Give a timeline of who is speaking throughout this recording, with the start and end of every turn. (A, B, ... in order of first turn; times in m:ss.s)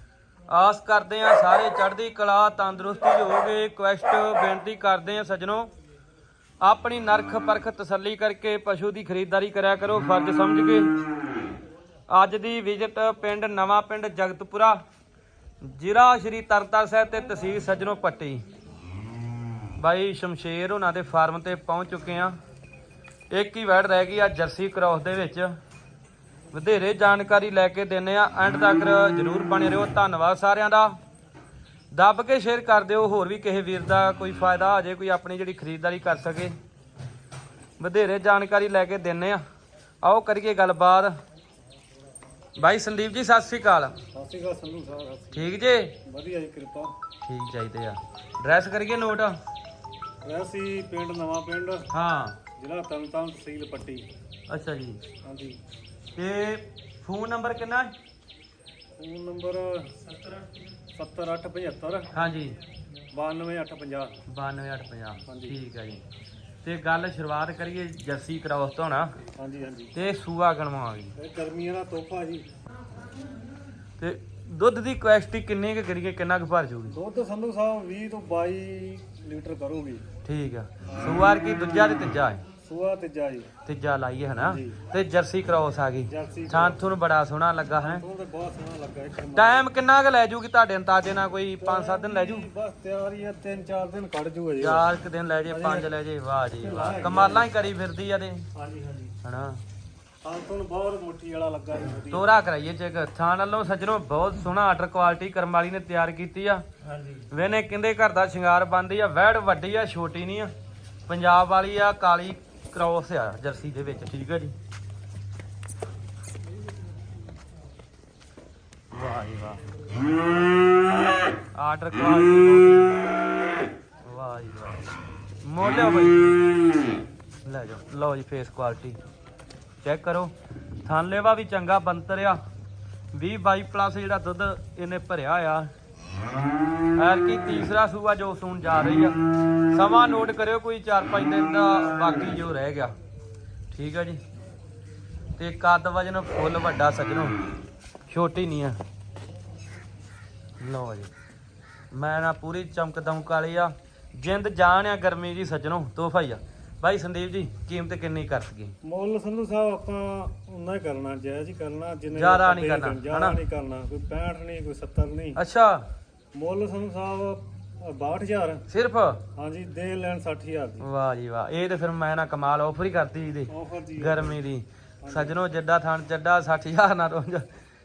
0:00.5-0:05.7 A
0:06.6-0:10.9 A
0:12.1-0:14.8 A
0:15.6-0:18.4 A
0:19.8-0:22.4 A
0:23.3-0:25.5 A
0:26.5-0:31.0 A
0:31.9-0:36.6 A
0:37.8-0:39.4 A
0:40.0-0:41.1 A
0:42.6-0:44.0 A
0:44.1-0:45.5 B
0:45.3-0:46.0 A
0:46.0-0:47.0 B
0:47.2-0:49.4 A
0:50.2-0:51.9 B
0:51.9-0:52.4 A
0:52.6-0:54.1 B
0:54.5-0:55.0 A
0:55.2-0:55.6 B
0:56.2-0:57.9 A
0:59.0-1:00.0 B
1:00.9-1:02.1 B
1:02.1-1:02.6 A
1:03.1-1:04.2 B
1:04.3-1:06.0 A
1:05.3-1:05.6 B
1:06.6-1:09.2 A
1:09.4-1:09.9 B
1:09.9-1:11.2 A
1:11.2-1:12.5 B
1:14.0-1:17.0 A
1:16.9-1:20.0 B
1:20.2-1:22.4 A
1:22.6-1:23.5 B
1:23.6-1:28.0 A
1:24.4-1:24.8 B
1:26.1-1:27.0 B
1:27.8-1:29.7 B
1:29.4-1:32.5 A
1:31.6-1:34.9 B
1:34.6-1:38.5 A
1:35.5-1:35.9 B
1:36.6-1:37.5 B
1:38.6-1:39.1 B
1:39.2-1:39.6 A
1:40.2-1:42.3 B
1:42.1-1:46.6 A
1:46.9-1:47.2 B
1:47.3-1:50.5 A
1:51.1-1:54.6 A
1:58.9-1:59.6 A
2:01.6-2:03.1 A
2:04.0-2:04.9 A
2:05.4-2:06.4 A
2:07.4-2:09.0 A
2:09.8-2:12.4 A
2:13.1-2:15.7 A
2:17.0-2:19.2 A
2:19.7-2:23.0 A
2:23.7-2:24.2 A
2:25.4-2:27.4 A
2:28.1-2:28.8 A
2:30.6-2:31.1 A
2:31.9-2:38.8 A
2:38.8-2:45.4 B
2:42.1-2:43.4 A
2:45.4-2:45.9 A
2:46.3-2:48.6 B
2:48.7-2:49.2 A
2:49.4-2:50.9 B
2:50.8-2:57.4 A
2:53.5-2:54.4 B
2:55.0-2:55.4 B